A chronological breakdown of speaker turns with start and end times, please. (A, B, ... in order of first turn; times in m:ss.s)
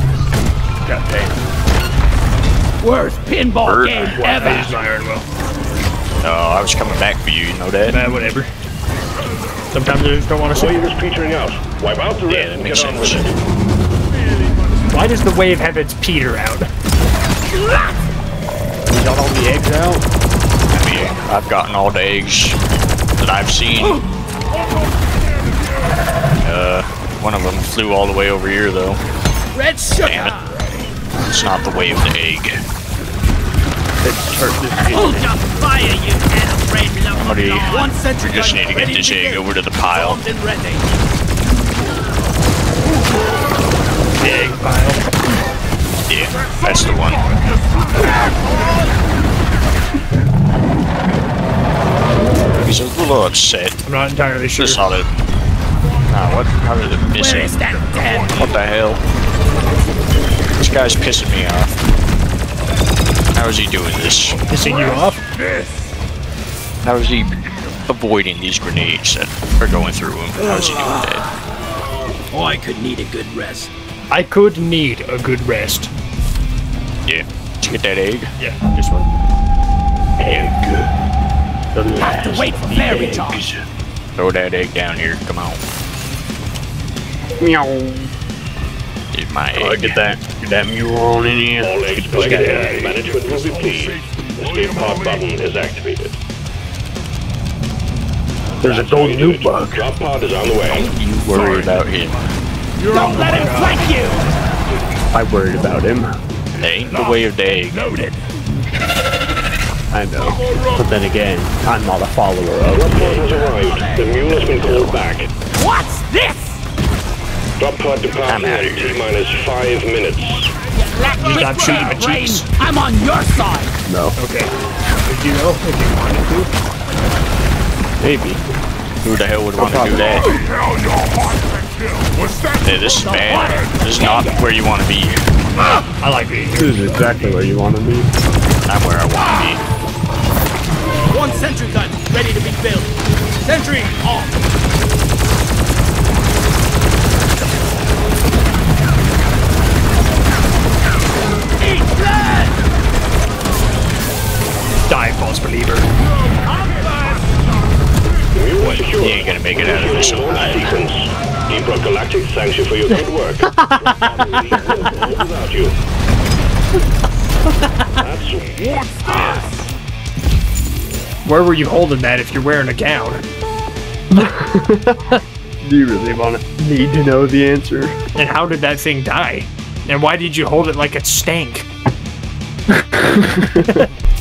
0:00.8-0:01.2 A
0:02.8-0:04.7 B
0:03.6-0:04.2 C
0:04.0-0:04.8 D
0:04.3-0:05.2 A
0:06.2-0:08.0 C
0:07.8-0:08.5 A
0:09.7-0:10.9 A
0:10.5-0:13.3 D
0:12.3-0:13.3 C
0:14.9-0:16.7 A
0:18.9-0:20.0 E
0:20.7-0:22.6 C
0:23.2-0:24.0 C
0:26.4-0:29.0 C
0:29.5-0:30.6 B
0:30.0-0:30.4 C
0:31.1-0:32.6 C
0:34.0-0:35.3 E
0:34.9-0:40.9 B
0:37.1-0:40.2 C
0:44.2-0:45.0 A
0:46.1-0:47.3 C
0:46.4-0:48.2 F
0:48.5-0:48.9 B
0:52.6-0:53.8 C
0:53.8-0:54.8 A
0:54.6-0:55.1 C
0:56.1-0:57.6 C
0:57.1-0:58.5 B
0:57.8-0:58.5 F
0:58.3-0:59.0 C
1:00.6-1:01.8 C
1:03.3-1:04.4 C
1:04.4-1:05.0 F
1:04.5-1:05.2 A
1:06.8-1:11.2 C
1:10.4-1:11.2 B
1:12.3-1:13.7 B
1:14.1-1:15.9 A
1:17.0-1:18.3 C
1:18.4-1:19.1 A
1:20.2-1:20.9 E
1:21.7-1:23.6 E
1:22.0-1:23.4 B
1:24.2-1:25.6 C
1:27.4-1:28.1 E
1:29.1-1:30.0 C
1:29.5-1:32.6 E
1:31.6-1:36.2 D
1:32.2-1:32.9 A
1:32.2-1:35.3 F
1:38.6-1:39.9 E
1:38.6-1:40.9 D
1:40.7-1:42.2 C
1:42.8-1:43.9 F
1:42.9-1:44.2 B
1:43.3-1:43.7 A
1:45.1-1:46.2 E
1:46.5-1:47.8 C
1:47.0-1:48.2 B
1:49.9-1:53.3 E
1:50.3-1:50.8 F
1:52.7-1:55.3 D
1:53.2-1:54.7 B
1:55.6-1:56.6 B
1:57.6-2:00.5 D
1:58.2-1:59.0 C
2:00.8-2:03.7 B
2:01.2-2:02.4 A
2:03.8-2:04.2 E
2:04.2-2:04.5 A
2:05.0-2:06.5 A
2:08.0-2:08.4 E
2:09.0-2:10.2 C
2:09.6-2:10.4 E
2:10.2-2:13.7 F
2:12.6-2:15.2 C
2:12.9-2:14.3 B
2:16.0-2:17.4 A
2:16.5-2:18.1 E
2:18.6-2:19.6 C
2:21.1-2:24.3 B
2:31.6-2:32.6 B
2:34.9-2:35.9 A
2:38.3-2:45.8 D
2:39.0-2:40.8 C
2:42.9-2:44.9 A
2:48.0-2:49.4 D
2:49.1-2:49.3 B
2:51.2-2:53.2 A
2:54.1-2:55.0 E
2:55.6-2:58.0 E
2:58.1-3:01.6 A
3:02.9-3:03.6 E